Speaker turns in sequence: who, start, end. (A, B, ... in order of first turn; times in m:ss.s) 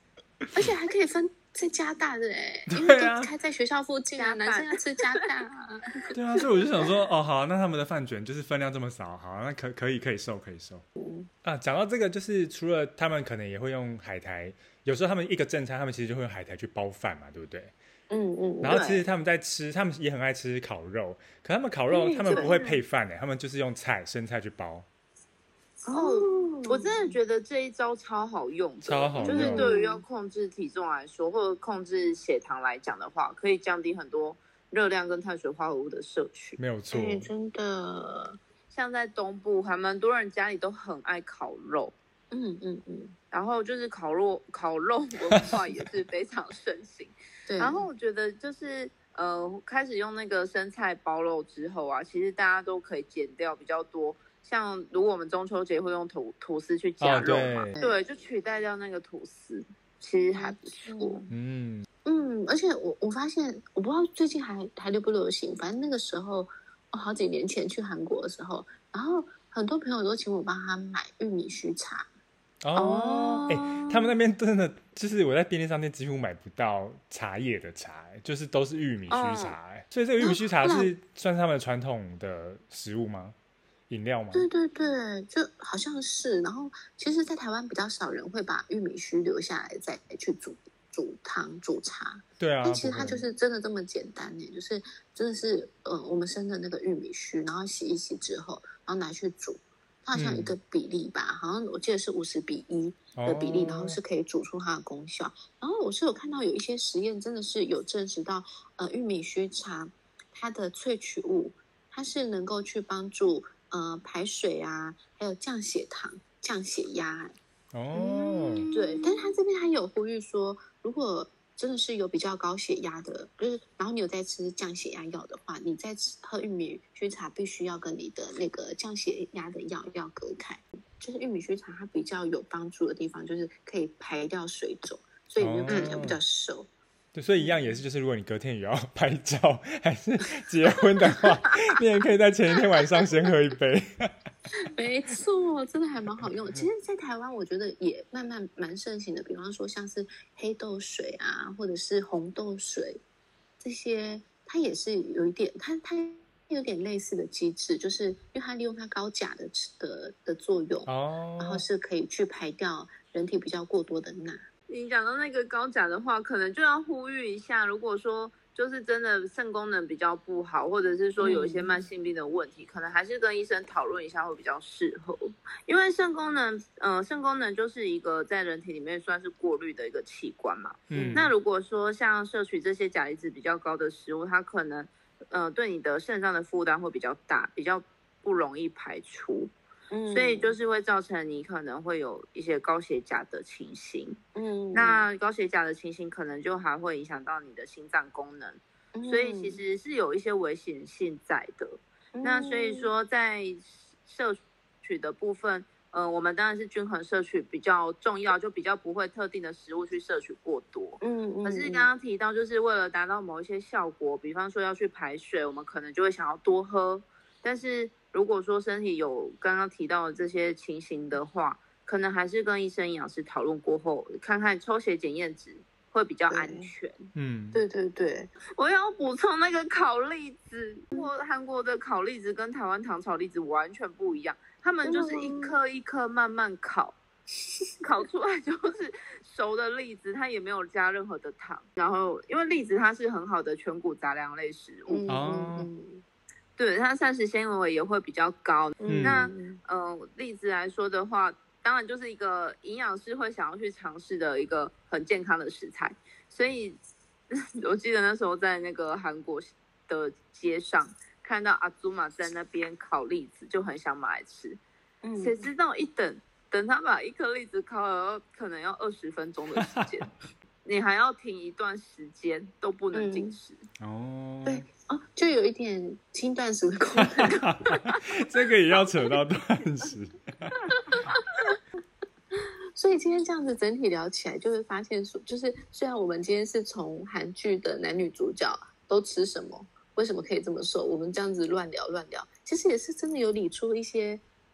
0:00.5-0:06.8 A
0:02.7-0:03.3 B
0:04.2-0:05.3 C
0:06.1-0:10.8 B
0:11.0-0:11.3 A
0:11.4-0:17.7 B
0:18.1-0:18.9 A
0:18.6-0:24.9 B
0:18.6-0:19.0 C
0:21.9-0:22.6 A
0:22.3-0:22.8 C
0:25.9-0:27.2 A
0:25.9-0:36.6 C
0:28.8-0:29.7 B
0:29.2-0:30.0 A
0:36.6-0:37.3 B
0:36.9-0:38.4 A
0:38.7-0:41.9 C
0:42.3-0:43.2 A
0:43.3-1:01.2 C
0:47.5-0:47.8 A
0:57.0-0:57.8 B
0:57.8-0:58.0 A
1:00.3-1:01.2 A
1:01.3-1:01.9 B
1:02.0-1:12.1 A
1:12.6-1:23.4 B
1:12.8-1:14.0 C
1:19.1-1:19.6 C
1:20.2-1:20.9 A
1:23.9-1:24.5 B
1:24.3-1:57.3 A
1:32.4-1:33.2 B
1:40.1-1:40.6 B
1:43.2-1:44.0 B
1:57.7-1:58.7 B
1:58.0-2:16.7 A
1:58.6-1:59.2 C
2:15.4-2:16.2 B
2:15.7-2:16.0 C
2:17.1-2:24.1 B
2:17.4-2:17.8 A
2:24.6-2:33.0 A
2:33.6-2:44.5 A
2:40.9-2:41.6 B
2:44.7-3:09.5 C
2:51.2-2:51.7 A
3:00.9-3:01.3 B
3:00.9-3:01.3 A
3:09.9-3:10.6 A
3:10.1-3:14.2 C
3:14.4-3:15.0 A
3:14.7-3:47.1 C
3:19.0-3:19.6 A
3:22.2-3:22.9 A
3:31.0-3:31.9 A
3:46.3-3:46.7 A
3:47.2-3:47.6 B
3:47.5-3:48.3 A
3:48.6-3:57.0 C
3:54.8-3:55.6 A
3:57.3-3:57.7 A
3:57.8-4:05.0 C
4:04.9-4:06.0 A
4:05.1-4:05.7 B
4:06.6-4:16.8 C
4:08.8-4:09.6 A
4:08.9-4:09.2 B
4:17.3-4:24.6 C
4:25.0-4:25.5 A
4:25.2-4:30.1 C
4:29.6-4:29.9 B
4:30.6-4:33.6 C
4:32.9-4:33.4 A
4:33.8-4:34.7 B
4:34.5-4:37.5 A
4:37.0-4:41.1 B
4:42.3-4:54.2 A